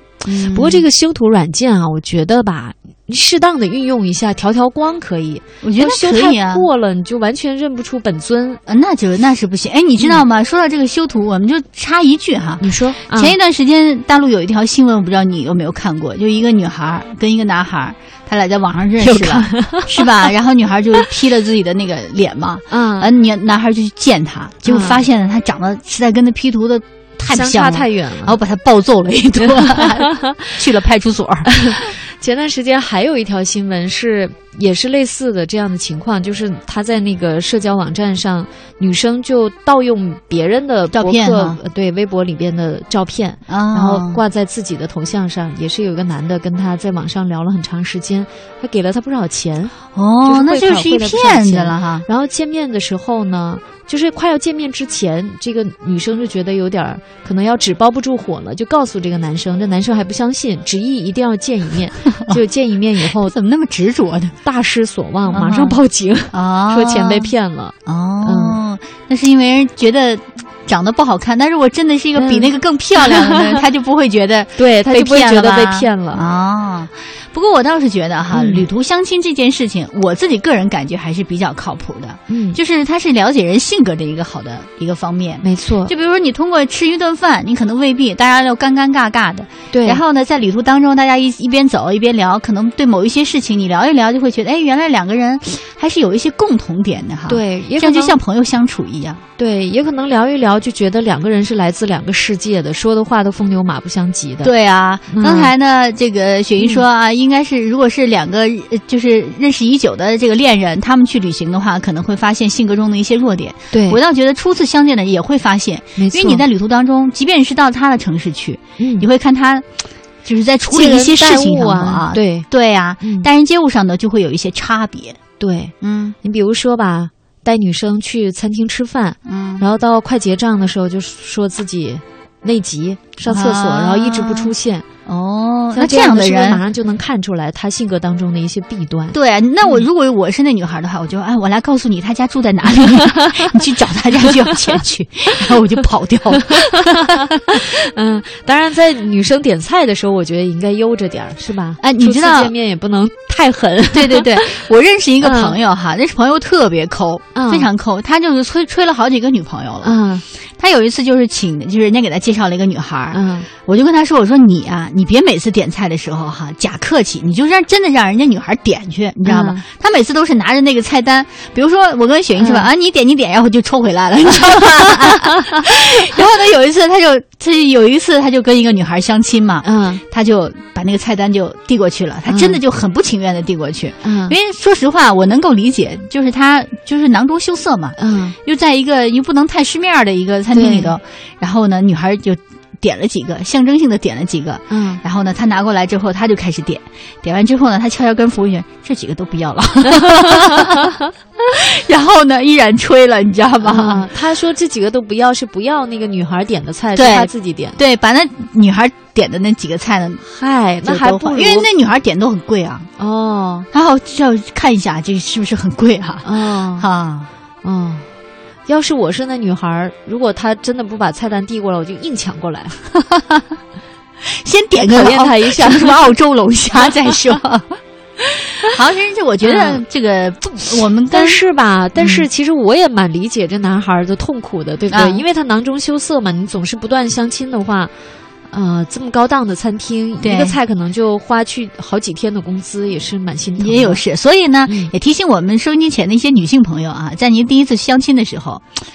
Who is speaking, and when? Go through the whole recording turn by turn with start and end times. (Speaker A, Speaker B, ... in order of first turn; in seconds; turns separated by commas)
Speaker A: 0.2-0.8, Speaker B: 0.4-8.6, Speaker A: 5.6-6.7, Speaker A: 8.7-31.8, Speaker B: 12.6-13.3, Speaker B: 19.0-20.3, Speaker B: 22.7-23.1, Speaker B: 24.6-25.0, Speaker B: 27.3-28.4, Speaker B: 29.4-30.5, Speaker B: 31.4-63.3, Speaker A: 40.9-41.6, Speaker A: 43.5-44.2, Speaker A: 49.9-52.0, Speaker A: 63.1-64.3, Speaker B: 64.4-68.6, Speaker A: 65.3-67.3, Speaker A: 67.8-99.2, Speaker B: 72.2-73.6, Speaker B: 74.6-76.2, Speaker B: 78.3-78.7, Speaker B: 82.3-82.6, Speaker B: 85.4-85.9, Speaker B: 89.7-90.0, Speaker B: 97.3-98.2, Speaker B: 99.4-104.5, Speaker A: 104.4-119.7, Speaker B: 105.1-105.5, Speaker B: 106.6-106.8, Speaker B: 113.7-114.0, Speaker B: 116.0-116.4, Speaker B: 118.8-119.1, Speaker A: 120.2-125.2, Speaker B: 120.7-122.5, Speaker B: 123.0-123.3, Speaker B: 125.4-134.8, Speaker A: 125.8-126.2, Speaker A: 129.2-129.7, Speaker A: 133.2-134.5, Speaker A: 135.1-136.6, Speaker B: 135.7-139.8, Speaker A: 139.1-147.3, Speaker B: 144.5-144.8, Speaker B: 146.4-154.7, Speaker A: 151.8-152.5, Speaker A: 153.9-160.0, Speaker B: 155.2-155.6, Speaker B: 157.3-157.7, Speaker B: 159.8-160.2, Speaker A: 160.6-200.9, Speaker B: 163.1-163.5, Speaker B: 169.2-169.6, Speaker B: 172.4-172.7, Speaker B: 179.6-180.0, Speaker B: 182.3-182.6, Speaker B: 184.0-184.3, Speaker B: 188.0-188.3, Speaker B: 190.5-190.9, Speaker B: 194.7-195.0, Speaker B: 200.0-200.8, Speaker A: 201.5-204.1, Speaker B: 203.6-207.8, Speaker A: 206.9-210.2, Speaker B: 210.2-211.7, Speaker A: 210.8-212.9, Speaker B: 213.0-213.7, Speaker A: 213.7-217.3, Speaker B: 216.2-216.8, Speaker B: 217.6-218.1, Speaker B: 218.7-222.8, Speaker A: 224.4-227.7, Speaker B: 224.7-226.1, Speaker B: 226.8-227.1, Speaker A: 228.7-231.4, Speaker B: 229.4-229.8, Speaker B: 231.1-237.9, Speaker A: 232.0-232.3, Speaker A: 234.9-235.2, Speaker B: 238.5-244.0, Speaker A: 240.2-240.6, Speaker A: 243.6-248.7, Speaker B: 244.7-244.9